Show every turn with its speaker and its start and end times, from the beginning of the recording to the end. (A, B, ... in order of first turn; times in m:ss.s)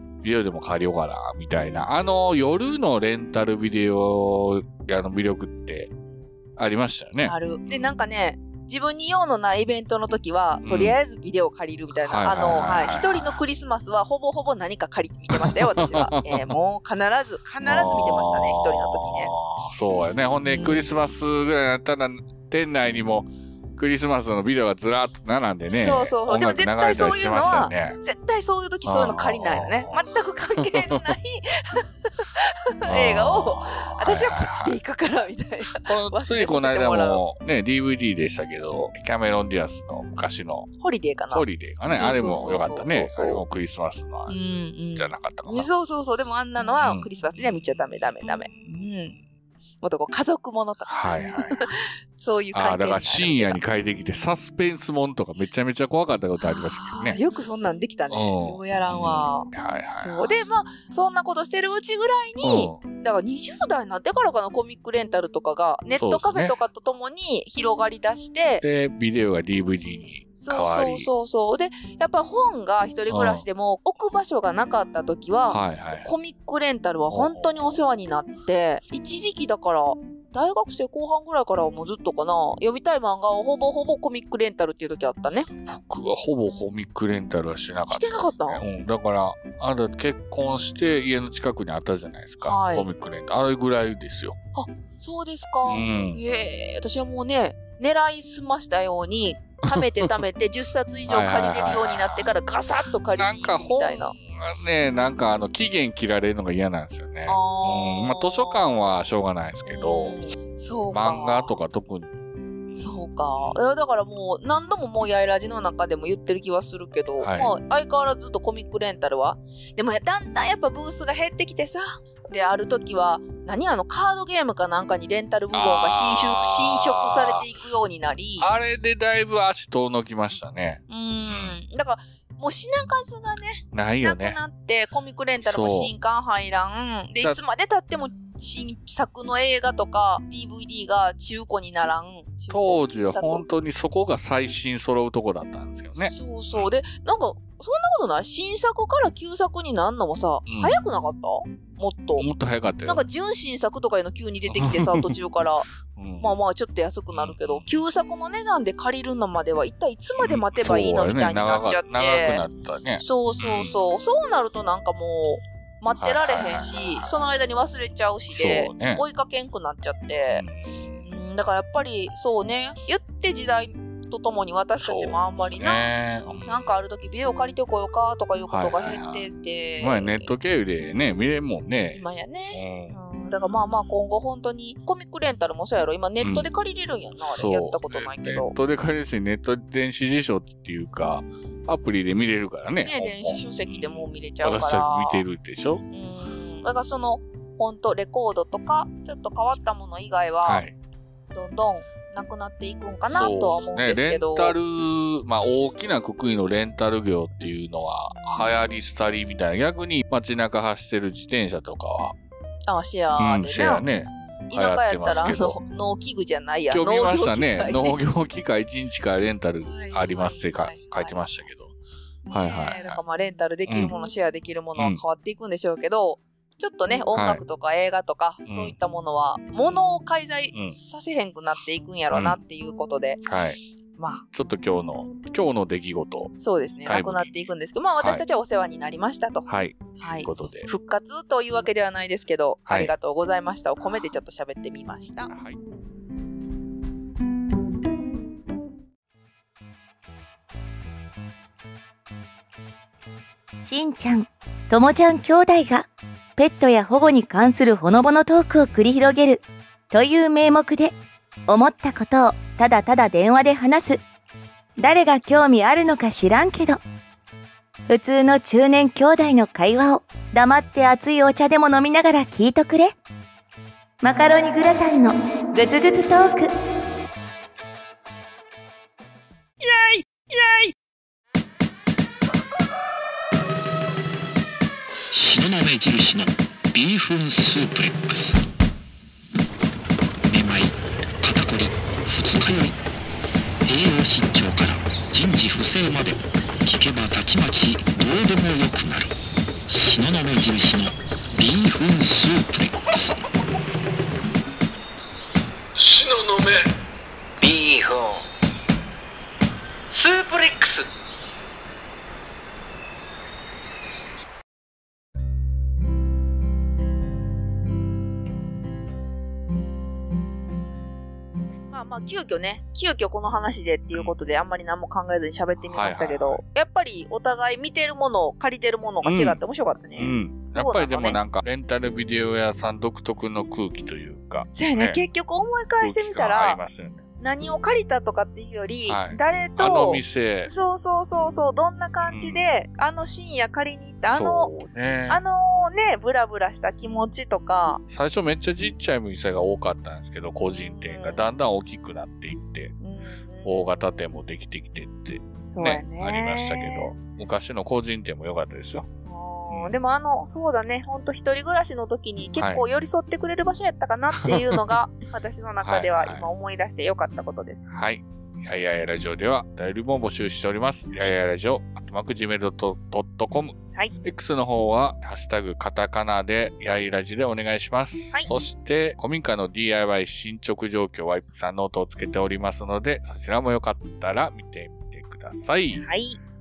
0:00.2-0:05.9 A
0:06.6-0:08.0 A
0:07.2-0:19.3 B
0:10.6-0:11.0 A
0:12.0-0:13.4 A
0:15.3-0:16.6 A
0:17.6-0:28.0 A
0:20.4-0:20.9 B
0:25.7-0:37.2 B
0:28.8-0:30.0 A
0:30.6-0:31.2 A
0:32.9-0:34.8 A
0:35.7-0:40.7 A
0:40.8-0:43.4 B
0:41.3-0:45.7 A
0:44.3-0:49.2 B
0:46.8-0:48.7 A
0:49.8-0:53.6 B
0:50.9-0:51.7 A
0:52.5-0:57.2 A
0:56.4-1:08.6 B
0:58.1-1:00.3 A
1:02.4-1:02.8 A
1:05.9-1:06.6 A
1:08.6-1:11.1 A
1:10.4-1:25.5 B
1:13.1-1:13.4 A
1:15.5-1:16.1 A
1:17.1-1:17.7 A
1:25.6-1:34.4 A
1:27.9-1:28.6 B
1:32.4-1:32.9 B
1:34.5-1:44.2 B
1:35.6-1:36.2 A
1:41.1-1:42.3 A
1:43.2-1:50.2 A
1:47.3-1:48.6 B
1:49.7-1:51.5 B
1:50.9-1:52.1 A
1:52.7-1:53.6 A
1:52.7-2:08.5 B
1:57.2-1:57.5 A
2:05.5-2:07.4 A
2:08.4-2:11.5 A
2:10.9-2:23.4 B
2:13.7-2:14.4 A
2:15.4-2:15.9 A
2:22.5-2:26.7 A
2:26.0-2:32.3 B
2:30.5-2:30.8 A
2:32.2-2:33.0 A
2:32.8-2:35.7 B
2:34.5-2:35.2 A
2:35.8-2:36.3 A
2:36.2-2:42.4 B
2:37.1-2:37.7 A
2:40.2-2:43.8 A
2:43.0-2:50.4 B
2:46.0-2:47.1 A
2:48.3-2:49.0 A
2:50.3-2:51.1 A
2:51.0-2:55.9 B
2:54.8-2:56.8 A
2:56.4-3:00.3 B
2:58.5-2:59.3 A
2:59.8-3:02.9 A
3:01.9-3:08.5 B
3:06.2-3:06.5 A
3:07.2-3:15.8 A
3:12.8-3:15.2 B
3:15.9-3:20.6 B
3:20.4-3:20.7 A
3:21.3-3:24.6 B
3:23.1-3:32.1 A
3:32.7-3:38.0 B
3:33.2-3:35.6 A
3:36.7-3:41.7 A
3:39.6-3:41.2 B
3:42.3-3:53.2 B
3:42.3-3:43.0 A
3:43.7-3:43.9 A
3:47.1-3:47.4 A
3:48.4-3:48.7 A
3:52.1-3:52.4 A
3:53.2-3:53.6 A
3:54.0-3:54.2 B
3:54.3-3:56.3 A
3:56.4-3:59.4 B
3:56.8-3:57.5 A
3:59.4-4:00.7 A
4:00.0-4:05.3 B
4:02.7-4:02.9 A
4:05.3-4:05.6 A
4:13.6-4:21.0 C
4:21.5-4:24.0 C
4:24.8-4:26.8 C
4:27.9-4:32.9 C
4:34.0-4:36.5 C
4:39.6-4:40.7 B
4:45.1-4:48.4 D
4:50.3-4:52.8 D
4:53.6-4:59.1 D
4:59.7-5:03.1 D
5:05.8-5:06.7 D
5:07.4-5:08.2 D
5:09.9-5:10.9 D
5:21.7-5:31.2 B
5:25.6-5:26.4 A
5:29.0-5:29.4 A
5:30.0-5:35.0 A
5:34.5-5:36.6 B
5:35.8-5:37.0 A
5:37.2-5:44.5 B
5:38.9-5:40.5 A
5:42.0-5:42.4 A
5:44.0-5:45.2 A
5:45.1-5:47.8 B
5:47.9-5:52.7 A
5:50.6-5:51.2 B
5:52.8-5:53.8 B
5:53.4-5:58.9 A
5:55.4-5:56.9 B
5:59.0-6:07.7 B
5:59.5-5:59.7 A
6:02.2-6:02.6 A
6:04.2-6:04.8 A
6:05.6-6:06.2 A
6:07.7-6:25.8 A
6:25.7-6:26.2 B